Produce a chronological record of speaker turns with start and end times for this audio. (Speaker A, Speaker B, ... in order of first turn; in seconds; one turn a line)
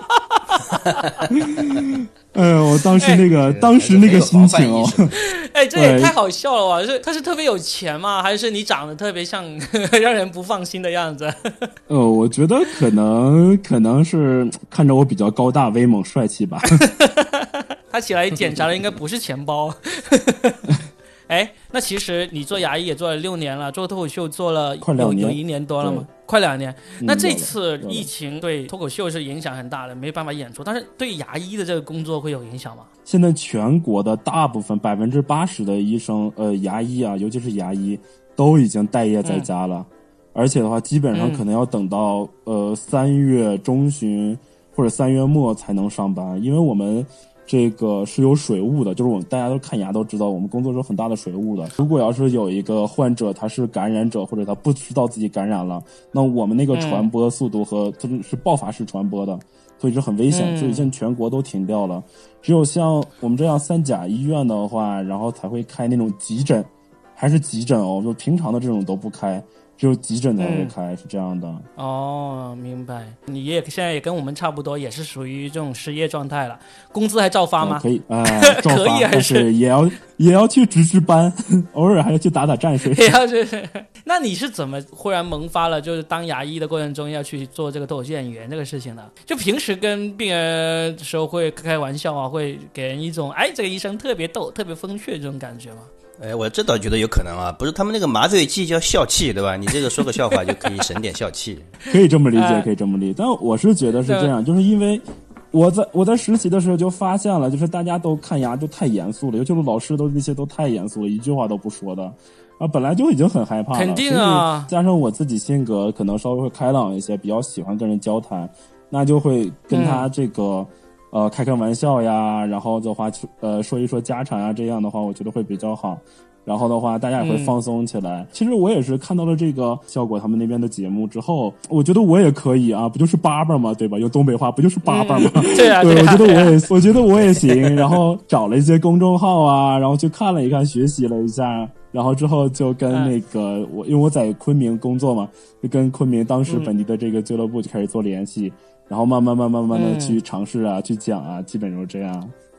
Speaker A: 0.5-1.0
Speaker B: 1.3-5.1
Speaker C: 3.2-5.1
Speaker A: 5.2-11.7
Speaker B: 5.8-6.1
Speaker B: 11.9-16.9
Speaker A: 16.8-20.8
Speaker A: 21.3-32.9
Speaker B: 24.8-26.1
Speaker B: 27.0-28.1
Speaker B: 33.1-71.7
Speaker A: 41.1-41.4
Speaker A: 56.7-57.1
Speaker A: 60.3-60.9
Speaker A: 70.4-70.7
Speaker A: 71.8-79.5
Speaker B: 77.6-83.2
Speaker A: 82.9-95.9
Speaker C: 96.2-101.7
Speaker B: 101.9-152.3
Speaker A: 102.3-102.7
Speaker A: 104.1-104.3
Speaker A: 113.7-114.7
Speaker A: 119.7-120.1
Speaker A: 127.2-127.5
Speaker A: 134.8-136.6
Speaker A: 149.7-150.2